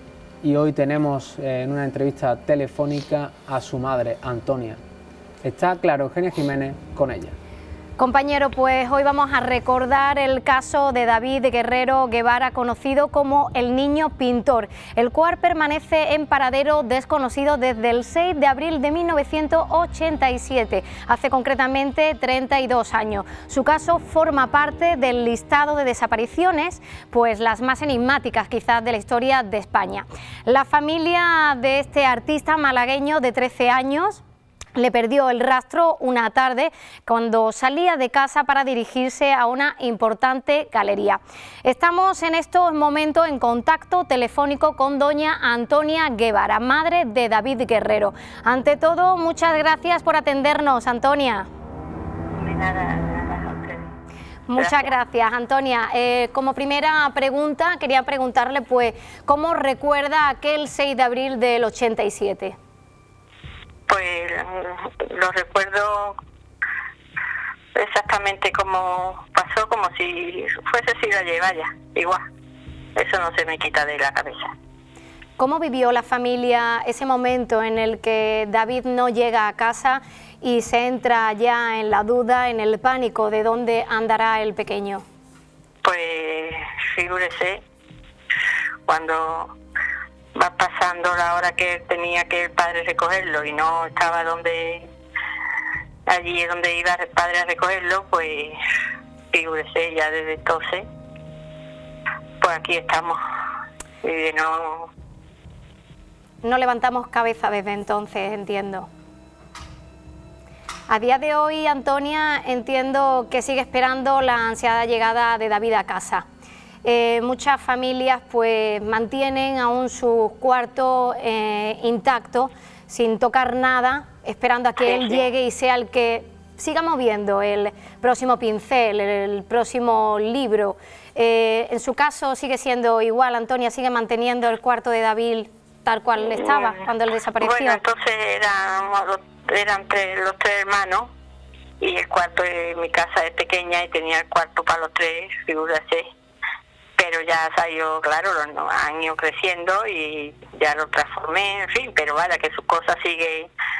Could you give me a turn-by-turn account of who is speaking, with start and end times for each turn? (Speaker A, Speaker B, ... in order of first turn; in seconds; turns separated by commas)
Speaker A: 0.4-4.8, Speaker A: 5.4-7.3, Speaker B: 8.0-34.2, Speaker B: 34.8-51.5, Speaker C: 52.4-53.9, Speaker B: 54.5-62.5, Speaker C: 54.5-54.9, Speaker C: 63.9-66.2, Speaker C: 67.7-72.2, Speaker C: 72.9-74.5, Speaker B: 75.4-85.0, Speaker C: 85.8-87.6, Speaker C: 88.9-89.5, Speaker C: 90.3-94.9, Speaker C: 96.0-98.6, Speaker C: 99.3-100.9, Speaker C: 102.4-103.2, Speaker C: 104.0-104.9, Speaker B: 106.4-108.9, Speaker B: 110.9-116.2, Speaker B: 116.8-137.8, Speaker C: 124.8-125.2, Speaker C: 136.3-136.9, Speaker C: 137.4-141.1, Speaker C: 141.8-146.1, Speaker C: 147.0-153.5